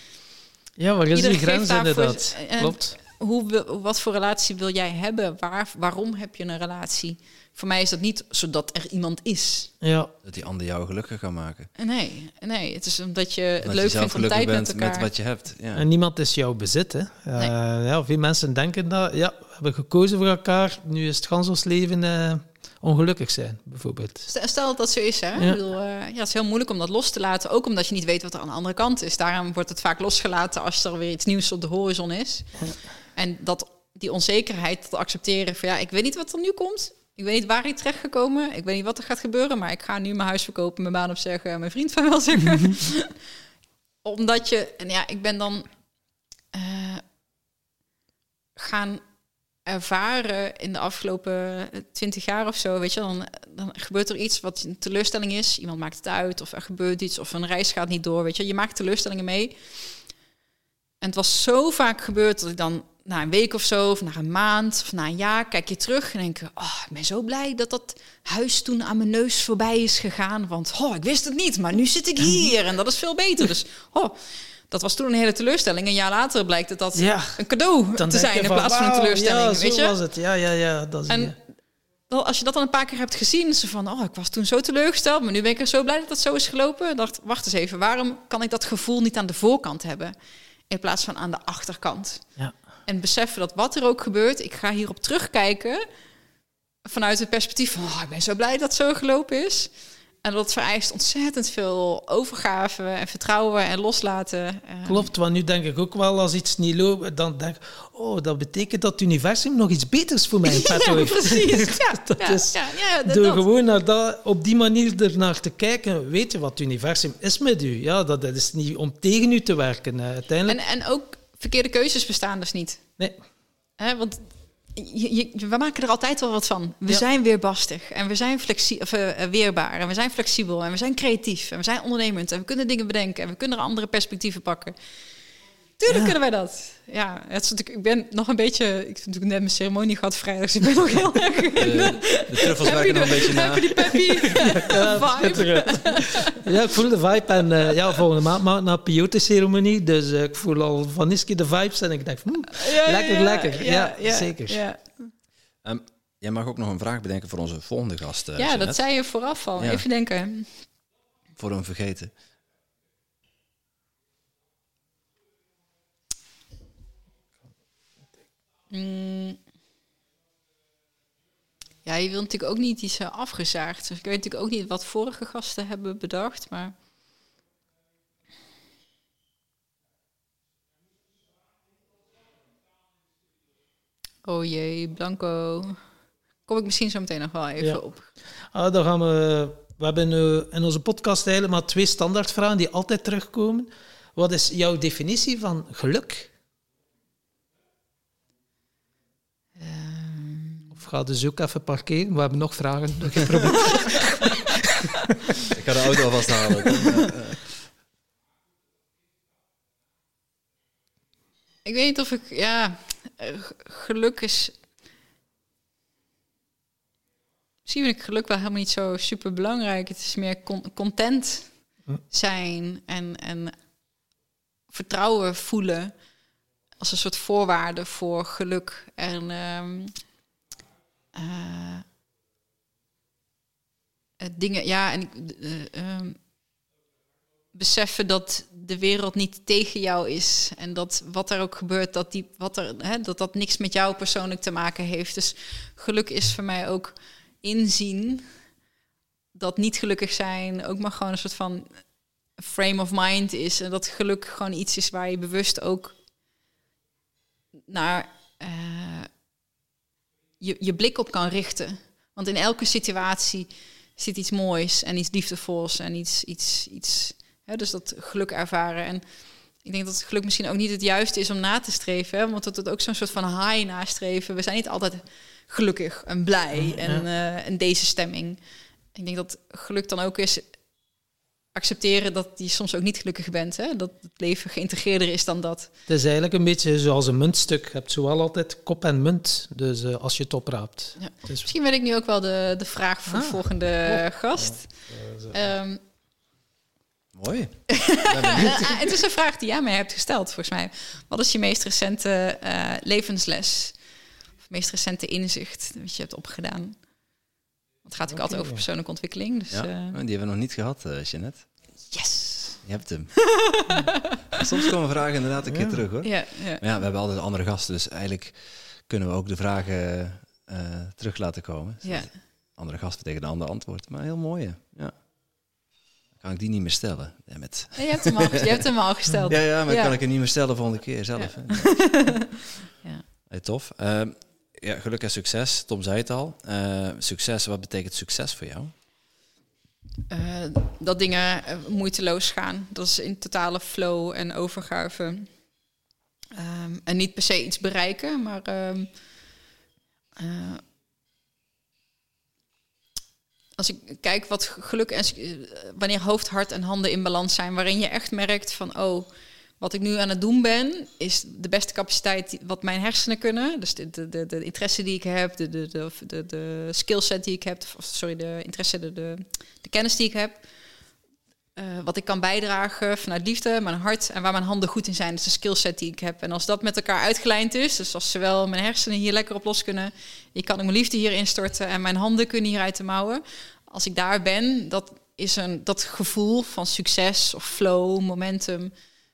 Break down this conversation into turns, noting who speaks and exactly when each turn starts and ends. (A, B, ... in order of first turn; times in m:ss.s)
0:00.8-0:03.0 A
0:01.1-0:09.7 B
0:09.8-0:10.1 A
0:10.2-0:11.7 C
0:11.8-0:15.1 B
0:13.6-0:15.8 C
0:15.8-0:24.3 A
0:24.3-0:32.6 B
0:33.1-0:43.1 B
0:44.0-0:45.7 B
0:46.5-0:47.0 B
0:48.6-0:49.0 B
0:49.6-0:59.6 B
1:01.0-1:14.1 B
1:14.7-1:19.9 B
1:16.9-1:17.4 A
1:17.9-1:21.3 A
1:21.1-1:21.4 B
1:22.1-1:30.1 B
1:30.7-1:32.3 B
1:32.8-1:35.8 B
1:36.8-1:39.7 B
1:40.2-1:45.1 B
1:44.8-2:00.6 A
1:50.4-1:53.4 B
2:00.5-2:02.8 B
2:03.8-2:14.7 B
2:15.8-2:26.4 B
2:15.9-2:16.1 A
2:21.6-2:24.4 C
2:24.6-2:34.6 A
2:32.5-2:34.8 B
2:35.6-2:38.8 C
2:38.4-2:40.5 B
2:39.6-2:39.8 C
2:41.4-2:42.1 C
2:48.7-2:49.4 B
2:51.8-2:56.7 B
3:04.2-3:05.8 B
3:06.5-3:08.1 B
3:08.5-3:16.3 A
3:19.6-3:20.7 B
3:20.7-3:24.5 A
3:25.5-3:27.5 C
3:31.6-3:34.6 B
3:37.6-3:41.6 B
3:42.1-3:43.5 B
3:44.7-3:45.9 B
3:46.8-3:49.9 B
3:51.1-3:51.8 B
3:54.2-3:56.2 B
3:57.5-4:08.3 B
4:09.3-4:11.8 B
4:12.4-4:16.0 B
4:17.7-4:19.1 B
4:20.4-4:29.0 B
4:29.6-4:38.4 B
4:36.6-4:37.0 A
4:38.9-4:40.5 B
4:41.5-4:45.7 B
4:45.9-4:51.5 A
4:51.0-4:54.7 B
4:53.1-4:55.4 A
4:55.3-4:55.8 B
4:57.1-4:58.8 C
4:57.7-5:03.8 B
5:04.4-5:06.8 B
5:07.8-5:10.0 B
5:08.1-5:08.6 A
5:09.5-5:11.4 C
5:11.9-5:12.6 B
5:12.6-5:13.4 C
5:13.2-5:14.4 B
5:14.3-5:24.9 C
5:15.5-5:15.8 A
5:16.0-5:16.6 B
5:21.8-5:22.1 B
5:26.2-5:28.3 C
5:27.8-5:30.0 B
5:29.3-5:32.2 C
5:31.2-5:32.3 B
5:33.3-5:38.7 C
5:40.1-5:45.3 B
5:46.3-5:48.9 B
5:50.2-5:50.6 B
5:53.6-6:10.4 B
6:11.6-6:28.7 B